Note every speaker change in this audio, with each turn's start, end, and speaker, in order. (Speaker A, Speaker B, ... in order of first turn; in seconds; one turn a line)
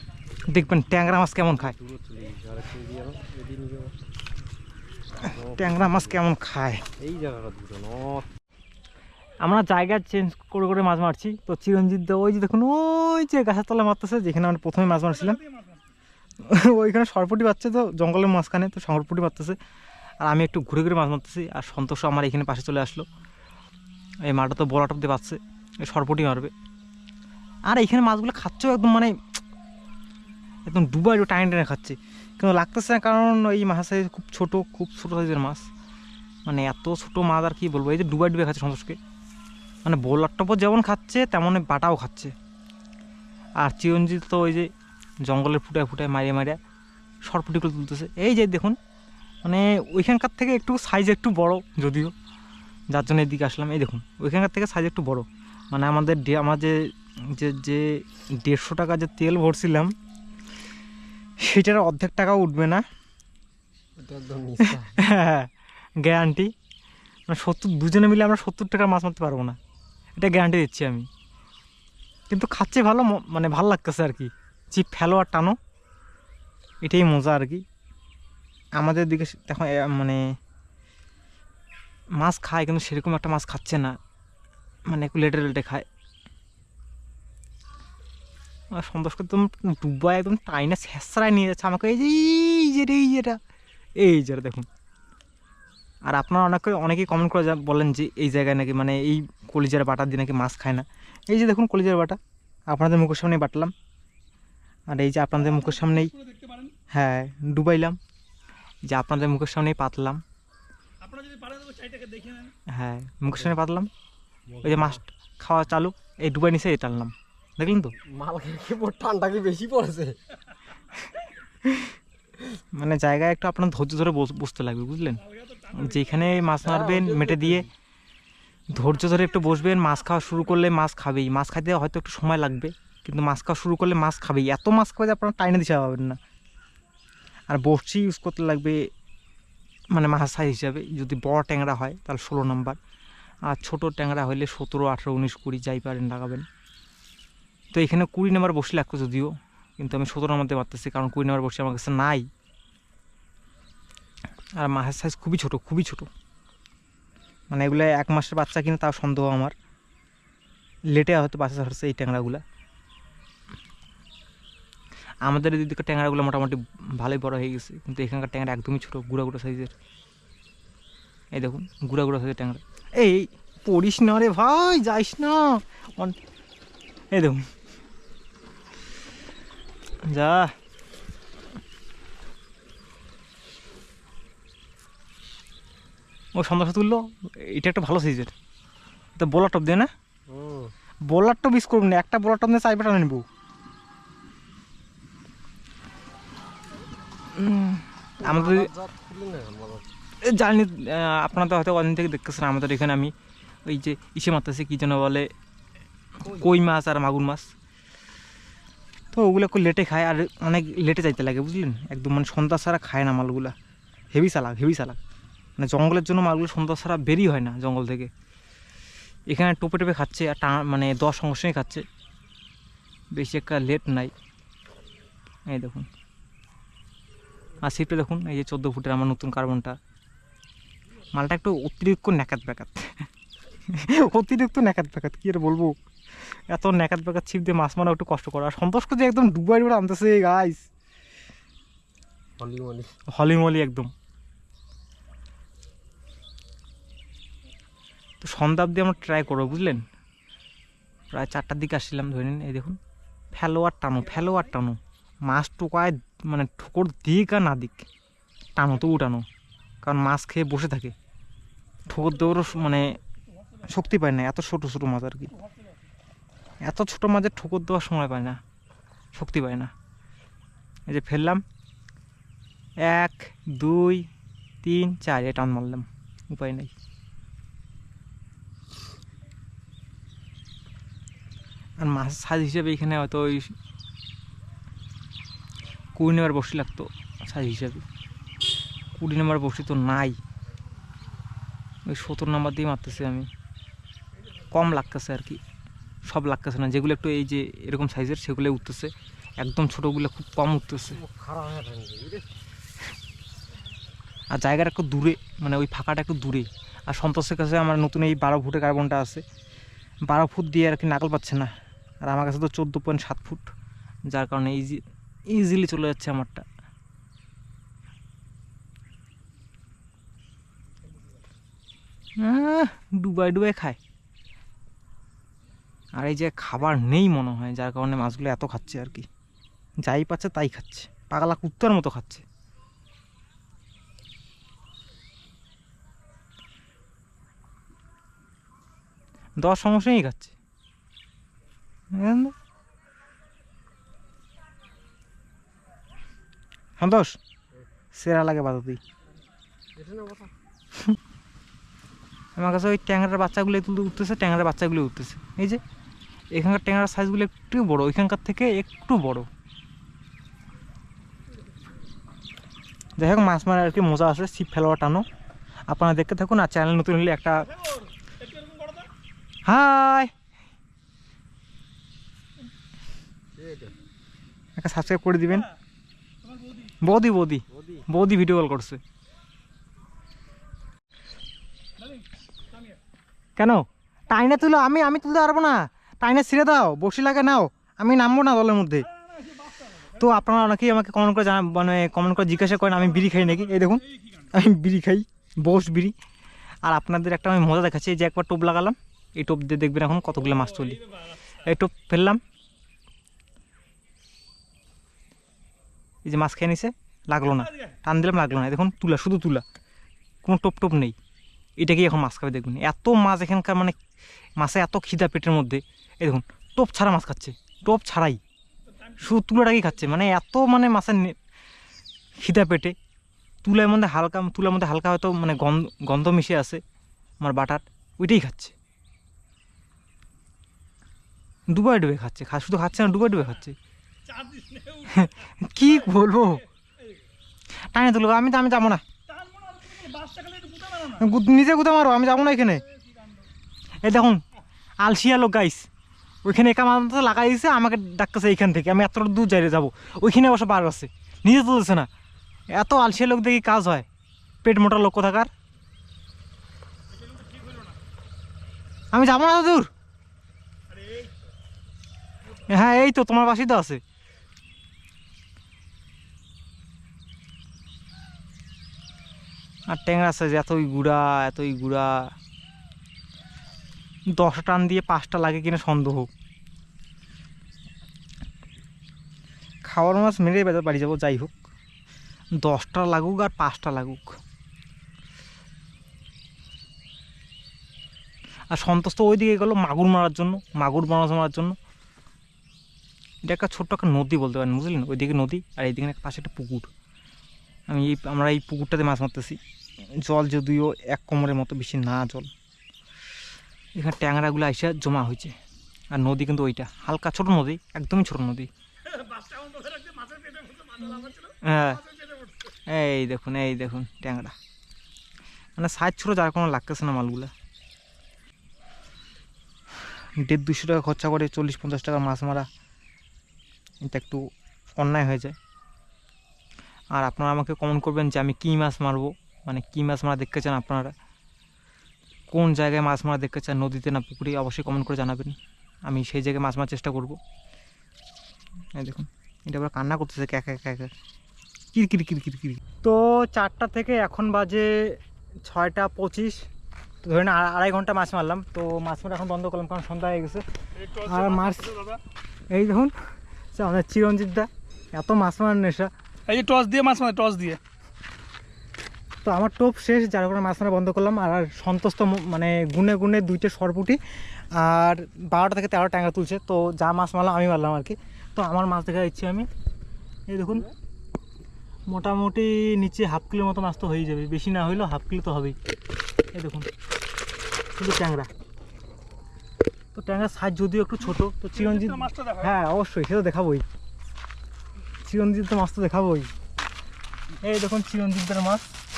Speaker A: 0.5-1.8
Speaker B: 1.6-3.9
Speaker B: 5.2-6.2
Speaker A: 5.5-6.8
Speaker B: 7.0-8.3
Speaker A: 9.4-15.4
Speaker C: 15.0-15.7
Speaker A: 16.4-19.6
Speaker A: 20.2-23.1
Speaker A: 24.3-26.5
Speaker A: 27.7-29.1
Speaker A: 30.6-35.6
Speaker A: 36.5-39.0
Speaker A: 39.8-42.3
Speaker A: 43.6-44.7
Speaker A: 45.2-46.6
Speaker A: 47.3-48.8
Speaker A: 49.4-52.1
Speaker A: 52.9-59.9
Speaker A: 61.4-62.8
Speaker B: 64.0-65.0
Speaker A: 64.6-65.5
Speaker A: 66.0-66.5
Speaker A: 67.3-69.6
Speaker A: 70.2-71.1
Speaker A: 72.3-75.5
Speaker A: 76.8-77.6
Speaker A: 78.8-80.2
Speaker A: 82.2-84.0
Speaker A: 84.9-85.9
Speaker A: 88.7-93.4
Speaker A: 94.0-94.7
Speaker A: 96.0-102.2
Speaker A: 102.7-103.7
Speaker A: 104.9-106.1
Speaker C: 106.2-106.7
Speaker A: 106.9-108.0
Speaker A: 108.9-110.2
Speaker C: 111.0-112.5
Speaker A: 112.7-113.9
Speaker B: 114.5-115.0
Speaker A: 114.6-117.9
Speaker B: 118.0-120.2
Speaker A: 121.6-121.9
Speaker A: 122.5-127.7
Speaker B: 126.6-127.7
Speaker A: 128.7-136.2
Speaker A: 137.5-138.8
Speaker A: 139.9-142.8
Speaker A: 143.5-146.4
Speaker A: 147.7-152.3
Speaker A: 154.6-156.1
Speaker A: 157.5-159.5
Speaker A: 160.9-162.4
Speaker A: 165.2-169.7
Speaker A: 171.3-176.2
Speaker A: 177.1-177.4
Speaker A: 180.1-180.5
Speaker A: 186.3-188.3
Speaker A: 189.2-189.9
Speaker B: 190.3-190.7
Speaker A: 191.1-193.2
Speaker A: 197.3-198.7
Speaker B: 198.2-199.8
Speaker A: 200.2-203.1
Speaker A: 203.7-205.3
Speaker A: 206.2-207.5
Speaker A: 209.1-213.5
Speaker A: 214.1-215.0
Speaker A: 215.6-218.1
Speaker A: 219.3-221.8
Speaker A: 223.1-224.1
Speaker A: 225.5-225.9
Speaker A: 227.6-229.7
Speaker A: 231.1-233.1
Speaker A: 233.7-235.7
Speaker A: 236.5-240.7
Speaker B: 242.4-242.9
Speaker A: 243.1-243.9
Speaker A: 248.2-249.8
Speaker A: 251.1-252.8
Speaker A: 253.3-257.9
Speaker A: 258.6-259.2
Speaker A: 259.8-260.9
Speaker A: 261.9-263.0
Speaker A: 263.6-265.3
Speaker A: 266.6-268.4
Speaker A: 269.1-269.7
Speaker A: 270.9-271.4
Speaker A: 272.9-274.0
Speaker A: 274.6-276.7
Speaker A: 281.8-283.5
Speaker A: 285.9-287.8
Speaker A: 288.9-290.2
Speaker A: 291.9-293.3
Speaker A: 294.5-295.4
Speaker A: 296.1-301.0
Speaker B: 300.9-302.3
Speaker A: 304.3-309.2
Speaker A: 310.1-311.5
Speaker A: 312.1-313.5
Speaker A: 314.1-316.4
Speaker A: 322.2-323.8
Speaker A: 326.0-329.1
Speaker A: 329.8-332.2
Speaker A: 339.4-340.3
Speaker A: 341.9-342.3
Speaker A: 346.8-347.1
Speaker A: 347.9-348.8
Speaker B: 349.7-350.3
Speaker A: 352.4-355.6
Speaker A: 356.3-359.3
Speaker A: 363.0-365.0
Speaker A: 365.7-367.5
Speaker C: 368.4-368.8
Speaker A: 369.4-370.1
Speaker B: 373.3-373.7
Speaker A: 374.6-375.5
Speaker A: 376.8-378.8
Speaker B: 377.5-377.8
Speaker A: 383.4-388.9
Speaker C: 389.2-389.9
Speaker A: 389.9-395.9
Speaker A: 396.6-400.8
Speaker A: 401.4-402.2
Speaker A: 406.0-409.4
Speaker A: 410.2-410.9
Speaker A: 411.6-413.8
Speaker A: 414.4-418.2
Speaker A: 419.0-421.1
Speaker A: 422.2-422.7
Speaker A: 423.4-426.6
Speaker A: 427.2-428.5
Speaker A: 431.5-433.6
Speaker C: 434.1-434.9
Speaker A: 434.9-436.4
Speaker A: 437.7-438.8
Speaker C: 439.1-441.0
Speaker A: 440.8-442.6
Speaker A: 443.8-444.2
Speaker A: 444.8-445.7
Speaker A: 446.2-451.9
Speaker A: 452.5-453.9
Speaker A: 454.4-455.3
Speaker C: 457.3-457.7
Speaker A: 458.9-459.7
Speaker A: 462.5-463.8
Speaker A: 469.7-472.1
Speaker A: 474.2-476.1
Speaker A: 479.6-481.4
Speaker A: 482.4-484.1
Speaker A: 488.5-491.6
Speaker A: 493.2-496.7
Speaker A: 497.7-499.4
Speaker A: 500.0-502.3
Speaker A: 503.8-505.3
Speaker A: 505.9-508.5
Speaker C: 509.4-511.1
Speaker A: 511.2-511.8
Speaker A: 512.7-514.3
Speaker A: 515.6-517.3
Speaker A: 520.2-522.5
Speaker A: 523.8-524.3
Speaker A: 524.8-525.3
Speaker A: 526.9-530.9
Speaker A: 532.3-535.4
Speaker A: 535.9-537.2
Speaker A: 538.8-540.9
Speaker A: 541.7-546.4
Speaker A: 547.0-550.4
Speaker C: 550.8-552.0
Speaker A: 551.0-551.8
Speaker A: 552.5-552.9
Speaker A: 553.5-555.9
Speaker C: 556.3-557.6
Speaker A: 559.2-564.0
Speaker A: 564.5-569.5
Speaker A: 570.3-570.7
Speaker A: 571.9-575.5
Speaker A: 576.3-576.7
Speaker A: 577.7-578.3
Speaker A: 579.9-583.6
Speaker C: 581.6-582.5
Speaker A: 585.0-586.3
Speaker A: 587.4-588.7